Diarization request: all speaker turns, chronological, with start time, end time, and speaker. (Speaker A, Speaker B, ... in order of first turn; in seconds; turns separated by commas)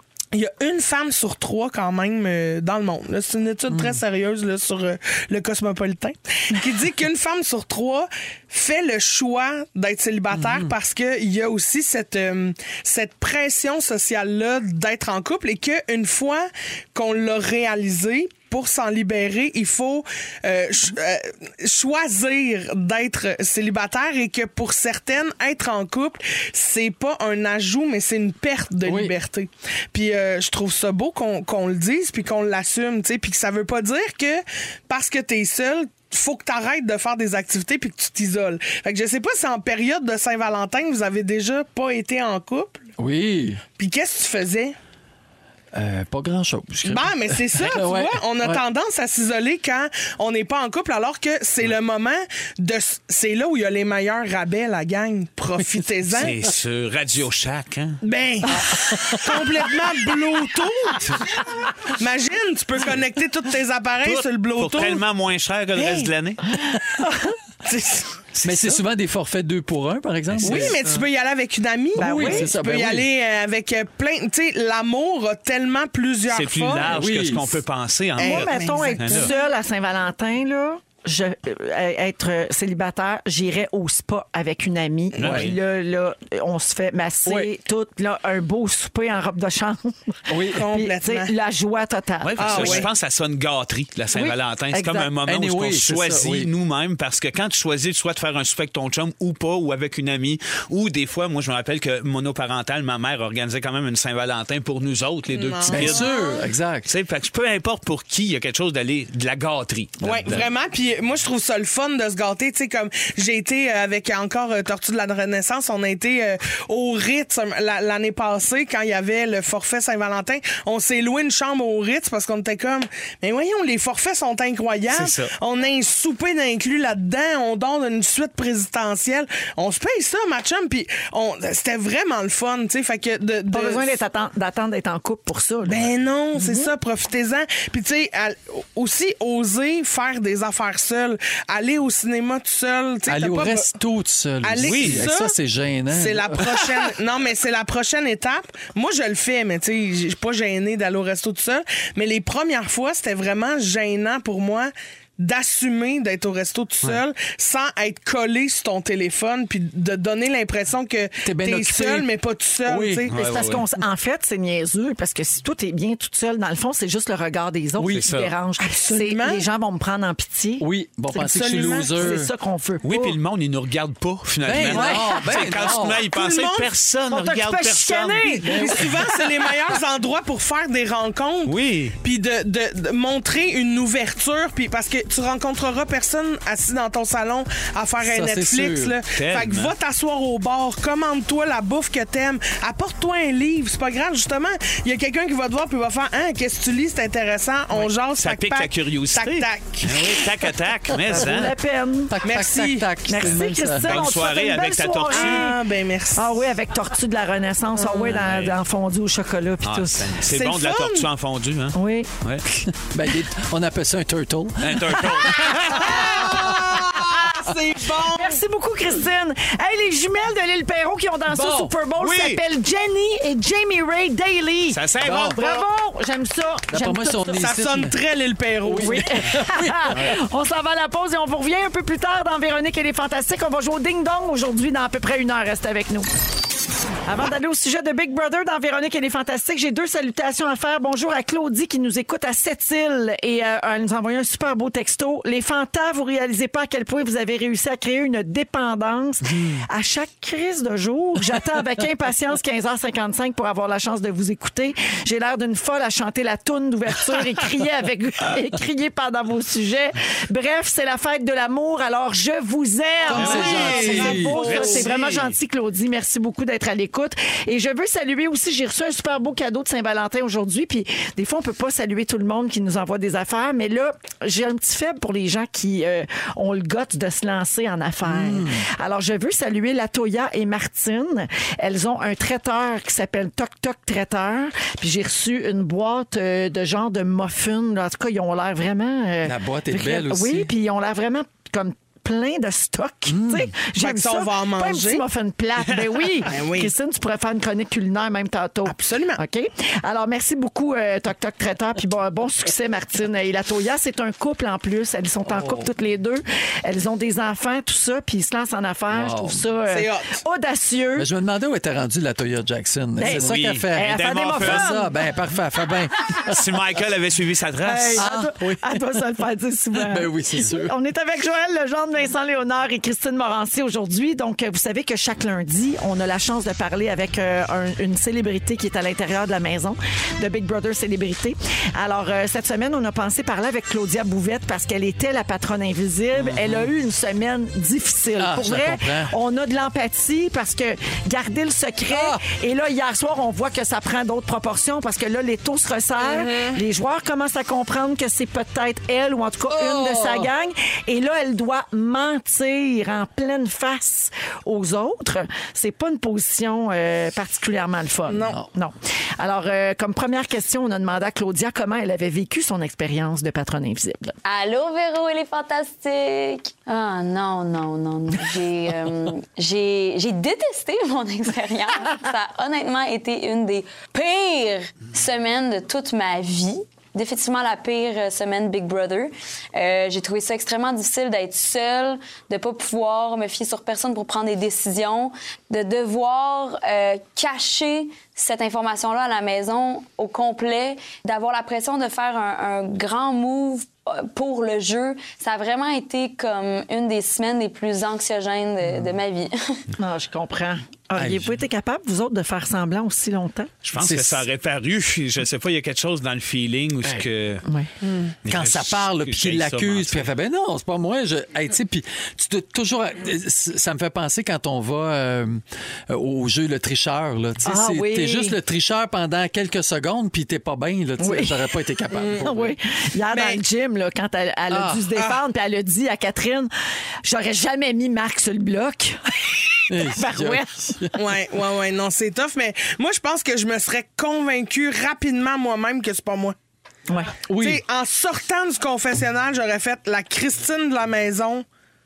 Speaker A: 0.3-42.8, Speaker B: 3.7-4.0, Speaker B: 10.3-10.7, Speaker B: 28.8-29.1, Speaker B: 43.0-43.6, Speaker A: 43.8-44.7, Speaker B: 45.7-48.6, Speaker A: 46.8-56.3, Speaker C: 56.1-58.0, Speaker A: 58.0-61.1, Speaker B: 58.7-59.3, Speaker A: 61.9-65.0, Speaker C: 64.0-66.5, Speaker A: 65.8-66.1, Speaker A: 67.7-68.2, Speaker C: 68.3-68.8, Speaker B: 68.4-71.0, Speaker C: 70.3-70.8, Speaker A: 70.4-77.0, Speaker B: 71.9-73.1, Speaker D: 72.0-72.5, Speaker C: 76.3-79.3, Speaker B: 76.8-77.6, Speaker A: 78.2-79.3, Speaker D: 78.2-92.9, Speaker C: 85.2-85.5, Speaker B: 87.2-87.5, Speaker B: 90.3-90.6, Speaker A: 90.5-91.3, Speaker C: 92.2-106.1, Speaker A: 92.4-92.9, Speaker D: 94.1-95.1, Speaker B: 95.2-96.5, Speaker A: 105.3-106.4, Speaker B: 105.7-106.9, Speaker C: 106.8-110.5, Speaker A: 110.0-133.9, Speaker C: 124.9-125.3, Speaker D: 133.5-136.7, Speaker A: 135.7-143.7, Speaker B: 143.1-146.9, Speaker A: 144.4-145.3, Speaker C: 144.6-145.0, Speaker A: 145.9-163.1, Speaker B: 161.2-162.1, Speaker B: 162.6-163.6, Speaker C: 163.1-163.6, Speaker D: 163.1-170.7, Speaker B: 167.8-168.1, Speaker C: 167.9-168.3, Speaker A: 168.6-169.4, Speaker B: 170.6-172.3, Speaker A: 171.2-172.1, Speaker D: 171.4-173.2, Speaker C: 172.8-178.4, Speaker B: 174.4-176.0, Speaker D: 174.7-175.2, Speaker A: 176.0-176.7, Speaker D: 177.1-178.6, Speaker A: 178.4-200.3, Speaker B: 178.4-179.2, Speaker C: 181.4-181.9, Speaker B: 188.0-188.9, Speaker C: 189.1-189.7, Speaker C: 197.7-201.5, Speaker D: 201.1-202.2, Speaker B: 201.2-201.4, Speaker B: 202.1-204.0, Speaker A: 202.2-202.9, Speaker D: 203.1-205.6, Speaker C: 203.8-205.5, Speaker A: 205.1-206.4, Speaker D: 206.1-210.1, Speaker A: 207.8-208.1, Speaker C: 208.1-208.6, Speaker C: 209.6-212.4, Speaker A: 210.2-211.1, Speaker D: 211.7-212.1, Speaker B: 212.8-216.7, Speaker C: 214.6-216.2, Speaker A: 215.7-218.4, Speaker D: 218.1-227.4, Speaker B: 221.3-221.7, Speaker C: 222.0-222.4, Speaker C: 224.7-225.4, Speaker B: 225.0-225.4, Speaker A: 225.1-225.6, Speaker B: 226.7-228.0, Speaker A: 227.3-229.2, Speaker B: 228.6-230.1, Speaker D: 228.8-236.1, Speaker D: 237.1-311.1, Speaker A: 263.1-265.3, Speaker B: 263.1-264.7, Speaker C: 263.1-263.9, Speaker B: 278.0-278.6, Speaker B: 289.2-290.5, Speaker B: 293.1-293.5, Speaker A: 293.8-295.0, Speaker A: 296.2-296.7, Speaker A: 298.6-299.2, Speaker B: 305.3-305.7, Speaker B: 308.9-309.4, Speaker A: 309.7-310.2, Speaker B: 310.9-316.4, Speaker D: 313.0-314.9, Speaker C: 313.0-314.7, Speaker C: 316.2-318.1, Speaker D: 317.6-364.1, Speaker B: 317.9-319.0, Speaker B: 319.7-320.7, Speaker B: 336.1-336.7, Speaker B: 338.2-339.1, Speaker B: 341.9-342.2, Speaker A: 346.0-346.6, Speaker B: 349.5-350.3, Speaker A: 358.1-358.4, Speaker E: 364.2-399.6, Speaker D: 399.8-403.5, Speaker B: 400.9-401.4, Speaker C: 403.6-407.4, Speaker B: 403.8-404.2, Speaker A: 407.8-408.1, Speaker C: 408.2-410.1, Speaker B: 408.2-422.5, Speaker D: 417.4-418.4, Speaker D: 421.0-421.3, Speaker A: 421.9-422.3, Speaker D: 422.2-426.5, Speaker A: 423.1-423.4, Speaker B: 424.5-424.8, Speaker A: 424.9-425.2, Speaker D: 427.0-430.8, Speaker B: 429.7-430.9, Speaker A: 430.9-436.3, Speaker D: 436.9-437.1, Speaker B: 437.3-437.6, Speaker A: 437.4-441.4